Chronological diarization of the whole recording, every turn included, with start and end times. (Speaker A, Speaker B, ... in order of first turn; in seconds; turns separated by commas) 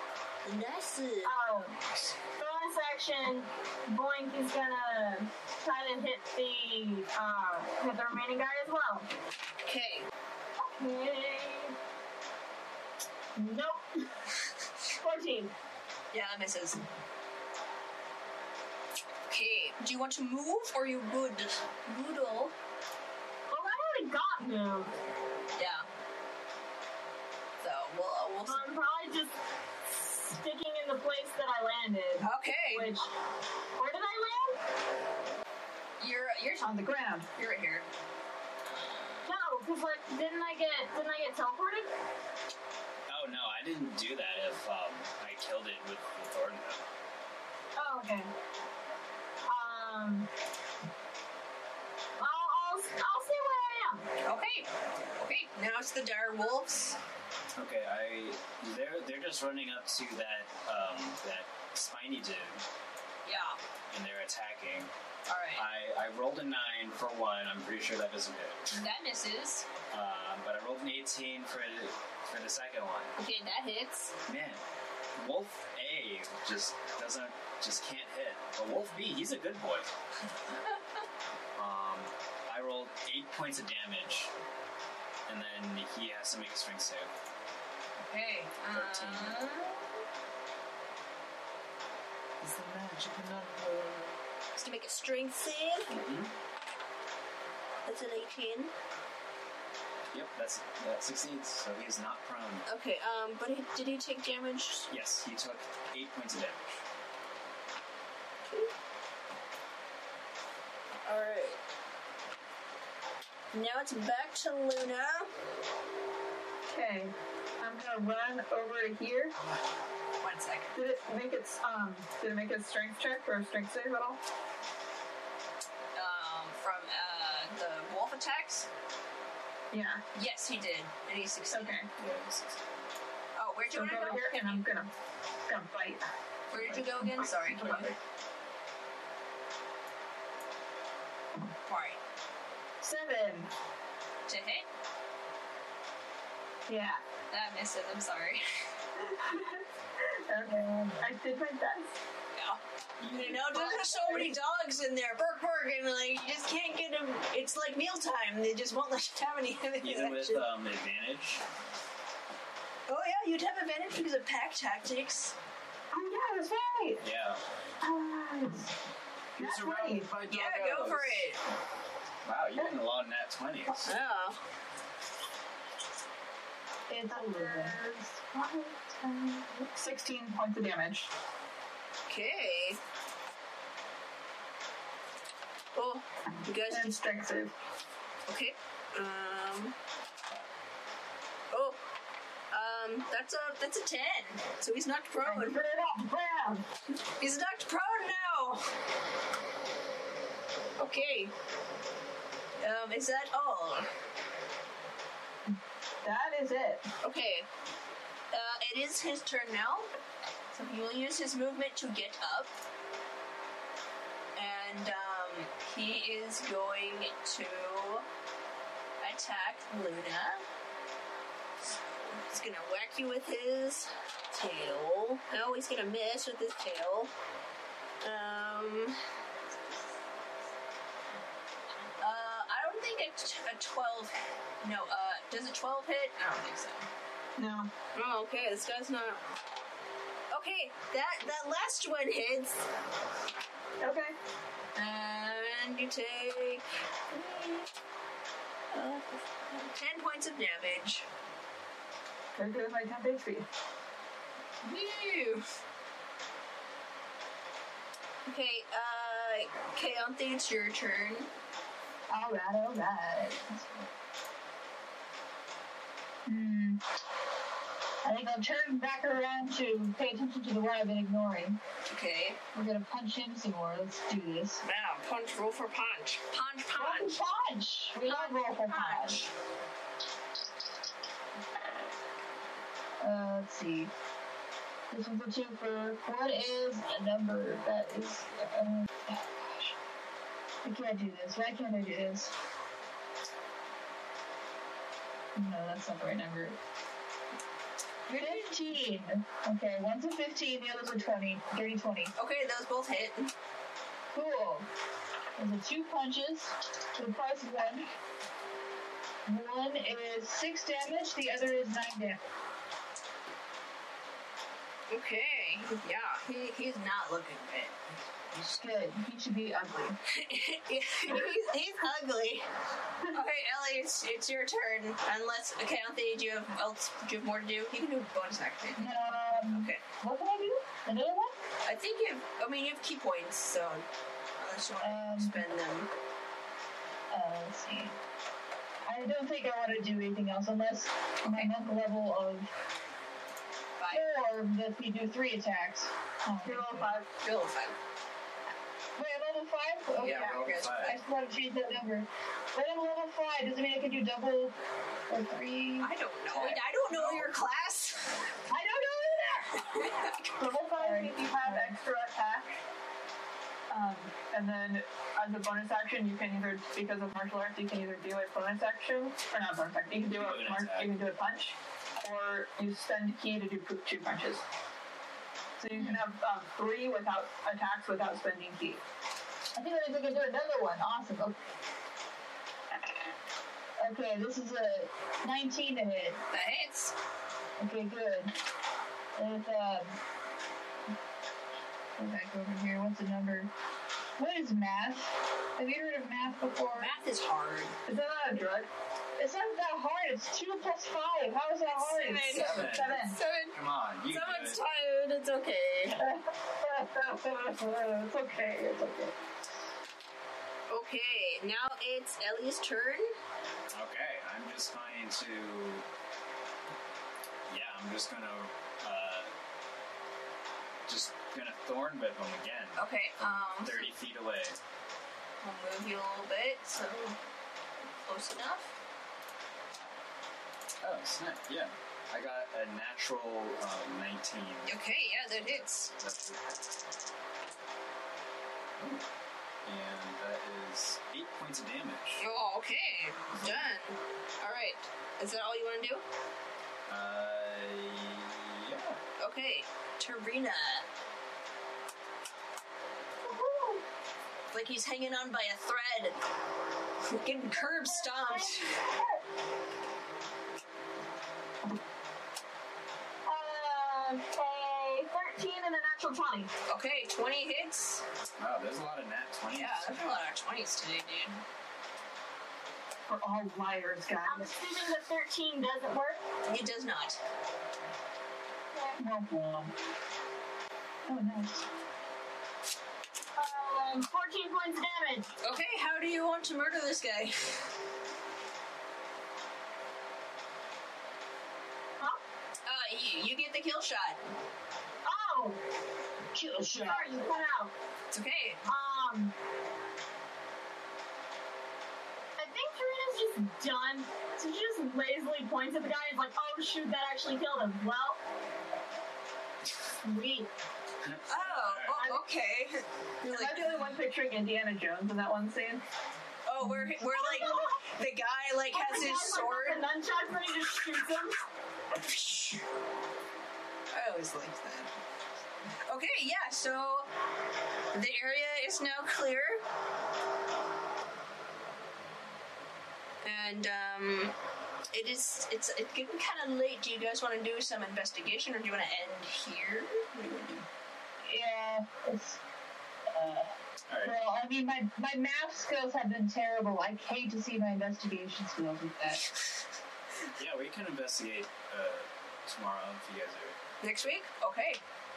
Speaker A: 0.4-1.7, Speaker B: 1.2-1.8, Speaker B: 2.3-9.1, Speaker A: 9.6-10.1, Speaker B: 10.6-11.7, Speaker B: 13.3-14.0, Speaker B: 14.9-15.5, Speaker A: 16.1-16.8, Speaker A: 19.3-22.5, Speaker B: 23.5-24.9, Speaker A: 25.6-25.9, Speaker A: 27.6-28.7, Speaker B: 28.5-29.4, Speaker B: 29.9-33.1, Speaker A: 32.2-32.9, Speaker B: 33.8-34.6, Speaker A: 36.0-36.8, Speaker C: 36.6-37.3, Speaker A: 37.3-37.8, Speaker B: 39.2-41.9, Speaker D: 43.1-46.8, Speaker B: 47.8-48.3, Speaker B: 49.5-50.3, Speaker B: 52.2-54.1, Speaker A: 54.2-57.0, Speaker D: 57.5-62.6, Speaker A: 63.2-63.6, Speaker D: 63.9-64.9, Speaker A: 65.3-65.7, Speaker D: 65.5-68.7, Speaker A: 68.7-69.7, Speaker D: 69.9-73.1, Speaker A: 73.2-74.1, Speaker D: 74.2-74.6, Speaker D: 75.1-79.9, Speaker D: 81.5-84.3, Speaker D: 85.3-87.1, Speaker A: 88.0-90.0, Speaker D: 88.7-89.4, Speaker D: 92.4-94.2, Speaker A: 94.6-95.9, Speaker D: 95.9-96.3, Speaker A: 97.8-98.7, Speaker D: 100.1-102.6, Speaker A: 102.7-104.9, Speaker D: 104.9-106.8, Speaker A: 111.0-111.6, Speaker A: 113.5-115.3, Speaker C: 116.7-119.3, Speaker A: 120.2-120.8, Speaker C: 120.7-124.2, Speaker A: 125.9-128.7, Speaker C: 129.7-130.0, Speaker A: 130.1-131.8, Speaker C: 131.5-131.9, Speaker D: 131.9-132.9, Speaker A: 133.3-134.6, Speaker C: 133.7-134.9, Speaker C: 135.5-136.0, Speaker A: 136.5-137.9, Speaker D: 136.5-138.0, Speaker C: 137.3-137.9, Speaker A: 141.7-142.0, Speaker C: 142.8-143.5, Speaker A: 144.3-144.7, Speaker C: 146.7-147.0, Speaker A: 147.3-148.4, Speaker C: 149.0-151.9, Speaker E: 150.5-150.9, Speaker A: 152.3-160.4, Speaker D: 153.0-154.2, Speaker C: 153.7-154.2, Speaker D: 159.8-161.4, Speaker A: 162.9-165.3, Speaker C: 165.9-167.0, Speaker D: 167.0-167.4, Speaker C: 167.8-168.7, Speaker D: 169.4-171.3, Speaker C: 169.4-170.1, Speaker A: 170.3-171.4, Speaker D: 172.2-173.9, Speaker A: 173.8-174.4, Speaker E: 176.9-177.8, Speaker C: 177.1-181.1, Speaker A: 182.1-182.8, Speaker A: 185.7-187.0, Speaker C: 186.7-187.5, Speaker A: 188.3-189.7, Speaker A: 191.5-191.8, Speaker A: 192.5-195.6, Speaker C: 195.3-196.6, Speaker A: 197.0-198.7, Speaker A: 200.8-201.3, Speaker A: 202.6-203.9, Speaker C: 206.0-206.8, Speaker A: 207.0-207.5, Speaker A: 208.3-209.9, Speaker A: 210.5-212.5, Speaker A: 214.3-218.1, Speaker A: 219.0-220.4, Speaker A: 221.6-227.1, Speaker A: 228.0-229.0, Speaker A: 229.5-229.9, Speaker A: 232.0-236.9, Speaker C: 237.4-237.7, Speaker A: 237.9-239.3, Speaker A: 240.3-242.6, Speaker C: 243.8-244.2, Speaker A: 244.7-247.7, Speaker A: 248.7-251.1, Speaker C: 252.3-253.4, Speaker A: 254.6-255.4, Speaker A: 258.2-261.3, Speaker E: 262.1-263.9, Speaker E: 266.2-266.8, Speaker E: 268.0-271.6, Speaker A: 271.9-272.4, Speaker E: 272.5-274.6, Speaker A: 274.6-277.2, Speaker E: 276.7-279.2, Speaker A: 278.0-279.3, Speaker E: 283.0-283.9, Speaker E: 284.9-289.7, Speaker E: 290.6-292.3, Speaker E: 295.3-296.6, Speaker A: 298.1-298.5, Speaker E: 298.1-302.1, Speaker A: 302.1-303.3, Speaker E: 304.1-304.7, Speaker E: 305.4-307.9, Speaker E: 309.2-312.2, Speaker A: 314.9-317.9, Speaker E: 318.4-320.0, Speaker A: 320.1-322.5, Speaker A: 323.1-329.0, Speaker E: 328.8-331.4, Speaker A: 329.5-329.8, Speaker A: 331.6-333.9, Speaker A: 334.4-335.9, Speaker E: 334.8-335.4, Speaker E: 337.1-337.9, Speaker E: 338.9-342.5, Speaker A: 341.2-341.5, Speaker A: 343.8-344.1, Speaker E: 343.9-347.0, Speaker C: 346.4-347.1, Speaker A: 347.2-347.8, Speaker E: 348.9-354.6, Speaker A: 350.0-351.0, Speaker D: 350.0-351.0, Speaker E: 355.1-355.9, Speaker A: 355.8-358.1, Speaker D: 356.3-357.4, Speaker E: 358.5-359.5, Speaker A: 359.5-360.3, Speaker C: 360.4-362.6, Speaker E: 360.7-361.8, Speaker C: 363.7-374.4, Speaker D: 370.1-370.9, Speaker C: 375.6-378.8, Speaker E: 375.7-376.0, Speaker E: 379.5-381.4, Speaker E: 383.8-386.2, Speaker A: 386.3-386.9, Speaker E: 387.6-388.3, Speaker E: 389.1-390.0, Speaker E: 391.9-393.5, Speaker E: 394.2-396.9, Speaker A: 396.7-397.8, Speaker C: 397.9-398.7, Speaker E: 399.1-402.9, Speaker A: 401.7-403.6, Speaker D: 402.4-404.6, Speaker C: 402.4-403.1, Speaker A: 404.1-406.0, Speaker E: 405.9-409.2, Speaker A: 410.7-413.2, Speaker D: 413.7-415.8, Speaker D: 417.5-419.3, Speaker D: 420.9-422.8, Speaker A: 422.8-423.9, Speaker D: 423.6-424.6, Speaker A: 425.4-427.2, Speaker A: 427.8-428.7, Speaker D: 430.8-434.7, Speaker A: 434.6-435.9, Speaker D: 435.3-436.6, Speaker D: 438.8-439.0, Speaker D: 439.6-442.2, Speaker A: 442.2-446.0, Speaker D: 443.3-443.7, Speaker D: 446.9-449.0, Speaker A: 449.2-450.9, Speaker B: 453.2-453.8, Speaker A: 454.5-456.2, Speaker A: 457.0-458.8, Speaker E: 457.9-458.9, Speaker B: 463.2-466.5, Speaker A: 466.7-468.0, Speaker D: 468.4-470.0, Speaker A: 469.5-471.4, Speaker C: 473.1-474.6, Speaker B: 474.2-476.2, Speaker A: 476.4-477.2, Speaker B: 478.7-479.0, Speaker E: 479.0-479.7, Speaker E: 481.1-481.7, Speaker B: 483.4-485.3, Speaker A: 485.4-487.7, Speaker A: 492.6-494.2, Speaker B: 495.0-495.6, Speaker E: 496.3-497.3, Speaker B: 496.8-497.7, Speaker A: 498.1-498.6, Speaker B: 498.6-499.3, Speaker B: 502.4-508.2, Speaker B: 510.0-510.5, Speaker D: 511.0-512.1, Speaker A: 511.3-513.9, Speaker C: 513.2-515.8, Speaker A: 516.5-519.8, Speaker B: 517.1-517.8, Speaker B: 518.7-521.4, Speaker A: 521.9-522.6, Speaker A: 523.9-525.0, Speaker A: 525.8-527.1, Speaker A: 527.9-529.6, Speaker A: 533.2-534.3, Speaker A: 534.9-540.7, Speaker E: 541.2-542.4, Speaker E: 543.1-549.2, Speaker D: 543.9-544.1, Speaker D: 550.4-553.6, Speaker A: 553.8-554.8